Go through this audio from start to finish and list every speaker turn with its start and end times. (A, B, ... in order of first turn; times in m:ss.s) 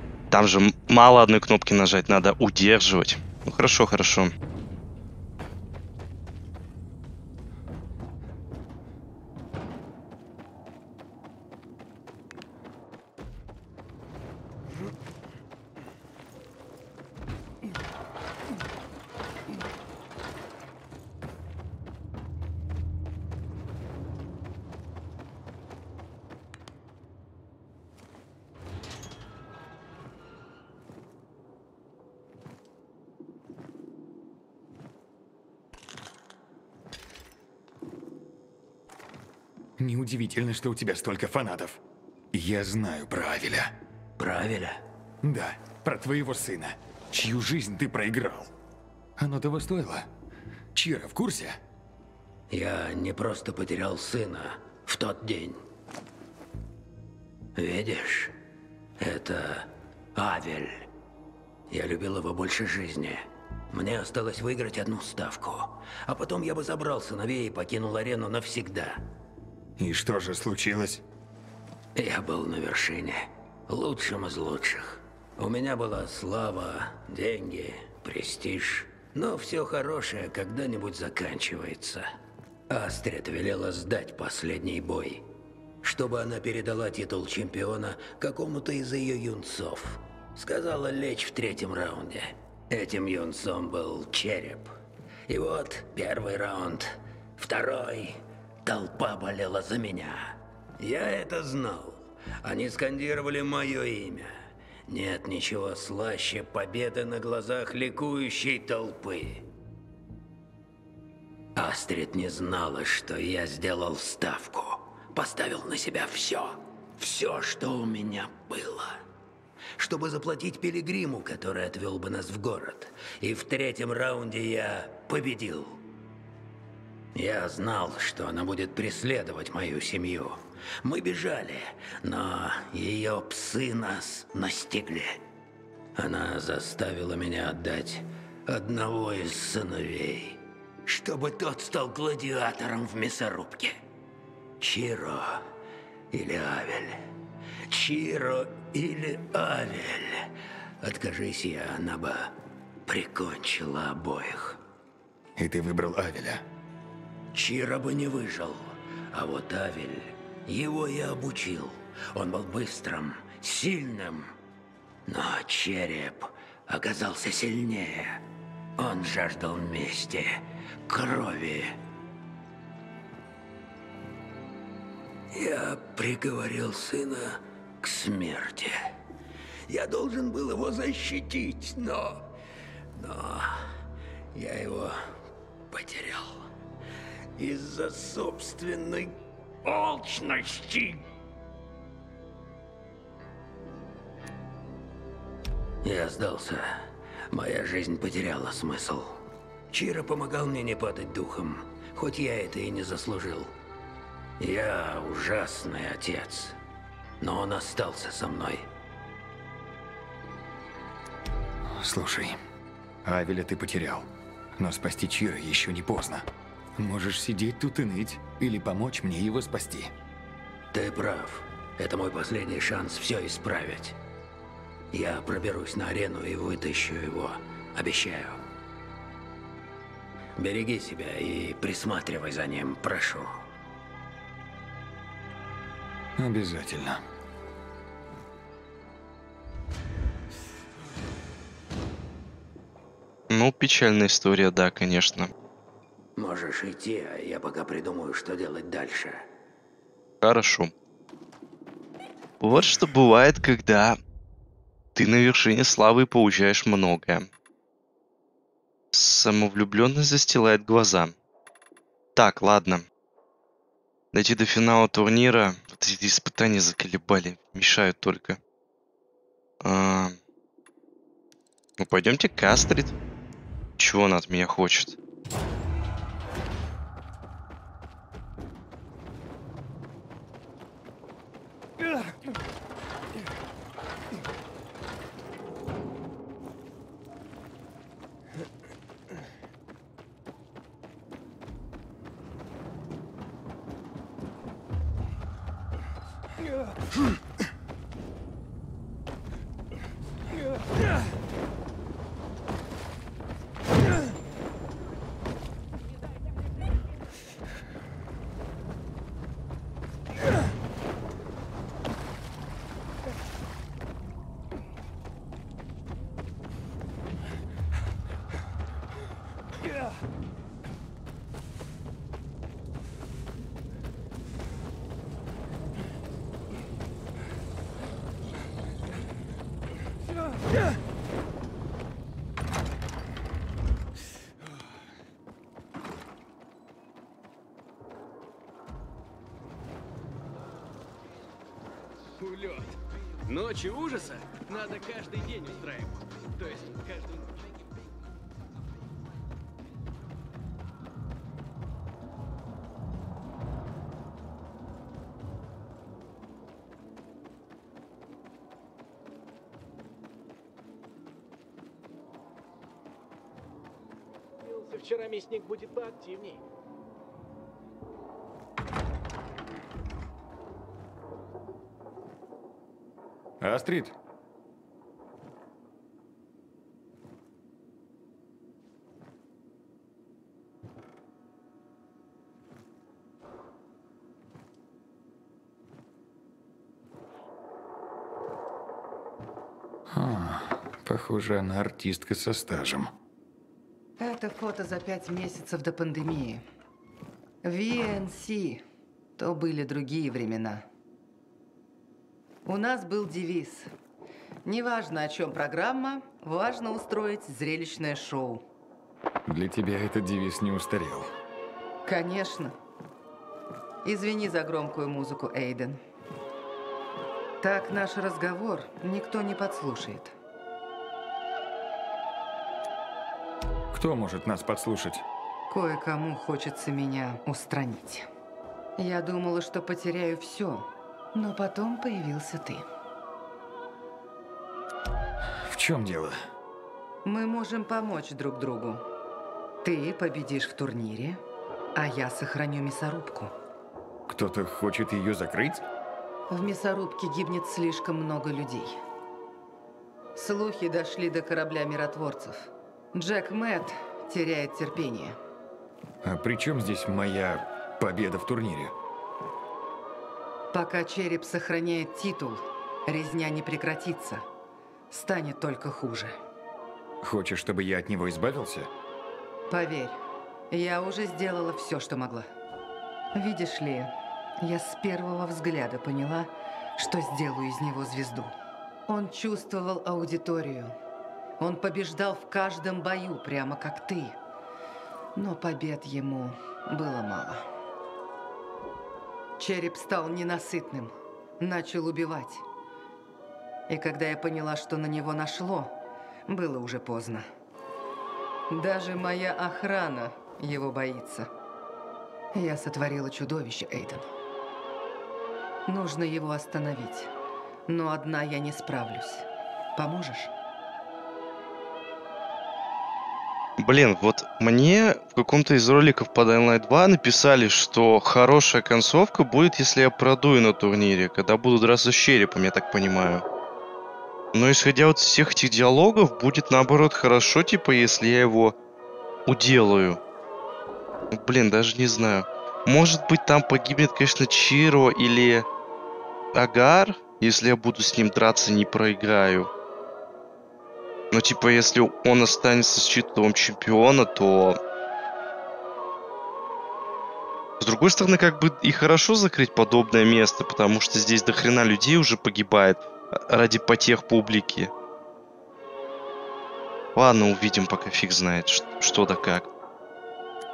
0:00.3-0:04.3 A
0:39.8-0:41.8 B
0:42.3-0:43.8 B
0:44.2-0:44.8 C
0:45.2-0:48.5 B
0:49.2-0:50.1 B
0:50.8-0:51.6 B
0:52.5-0:55.6 C
0:57.6-0:58.4 C
0:59.0-1:00.9 C
1:01.7-1:09.0 C
1:09.8-1:11.0 B
1:11.9-1:22.1 C
1:22.7-1:25.3 C
1:25.8-1:34.7 C
1:35.3-1:44.3 C
1:44.9-1:49.5 C
1:51.6-1:59.0 C
1:59.8-2:05.8 C
2:07.1-2:15.2 C
2:16.0-2:23.8 C
2:24.6-2:25.5 C
2:26.1-2:27.0 C
2:27.7-2:30.3 C
2:30.8-2:34.6 C
2:35.4-2:36.4 B
2:37.3-2:44.3 C
2:45.1-2:48.2 C
2:48.8-2:51.7 C
2:55.3-2:58.8 C
2:59.7-3:02.3 C
3:02.9-3:03.7 C
3:04.3-3:05.0 C
3:05.7-3:06.5 C
3:07.4-3:11.0 C
3:15.8-3:23.5 C
3:24.4-3:26.6 C
3:27.2-3:28.6 C
3:31.6-3:32.4 B
3:33.0-3:39.9 B
3:40.7-3:44.0 C
3:44.9-3:48.4 C
3:50.4-3:53.3 C
3:56.2-3:57.0 B
4:03.3-4:05.3 A
4:06.2-4:09.2 C
4:10.2-4:10.7 A
4:12.4-4:14.0 A
4:15.0-4:17.3 A
4:18.9-4:21.1 A
4:22.1-4:22.8 A
4:24.1-4:28.4 A
4:29.6-4:30.2 A
4:31.8-4:33.0 A
4:33.8-4:35.0 A
5:42.3-5:42.6 D
5:43.3-5:44.9 D
6:04.4-6:06.4 D
6:13.4-6:13.9 B
6:29.9-6:32.9 B
6:34.0-6:36.4 E
6:37.4-6:38.6 E
6:39.2-6:40.6 E
6:42.4-6:43.7 E
6:44.4-6:48.4 E
6:49.2-6:51.1 B
6:51.8-6:52.6 E
6:53.8-6:55.8 E
6:57.4-7:00.1 E
7:03.7-7:05.0 B
7:05.5-7:08.1 E
7:08.8-7:12.6 E
7:15.3-7:16.2 B
7:17.0-7:18.9 E
7:19.6-7:21.2 E
7:21.7-7:23.3 E
7:24.1-7:25.6 B
7:26.3-7:28.8 E
7:30.1-7:35.2 E
7:36.0-7:38.7 B
7:40.5-7:44.2 E
7:44.9-7:46.2 E
7:47.0-7:48.7 B
7:49.5-7:50.0 E
7:50.5-7:52.2 E
7:53.1-7:58.3 E
7:58.9-8:00.7 E
8:01.4-8:04.2 E
8:05.1-8:07.4 E
8:09.4-8:12.4 E
8:13.7-8:17.2 E
8:18.5-8:21.3 E
8:22.3-8:24.1 E
8:25.6-8:27.1 E
8:27.7-8:30.3 E
8:33.6-8:43.2 A
8:44.3-8:48.6 A
8:49.3-8:50.0 A
8:51.1-8:55.4 A
8:56.3-8:59.5 A
9:01.1-9:04.6 A
9:07.6-9:14.7 A
9:16.9-9:19.5 A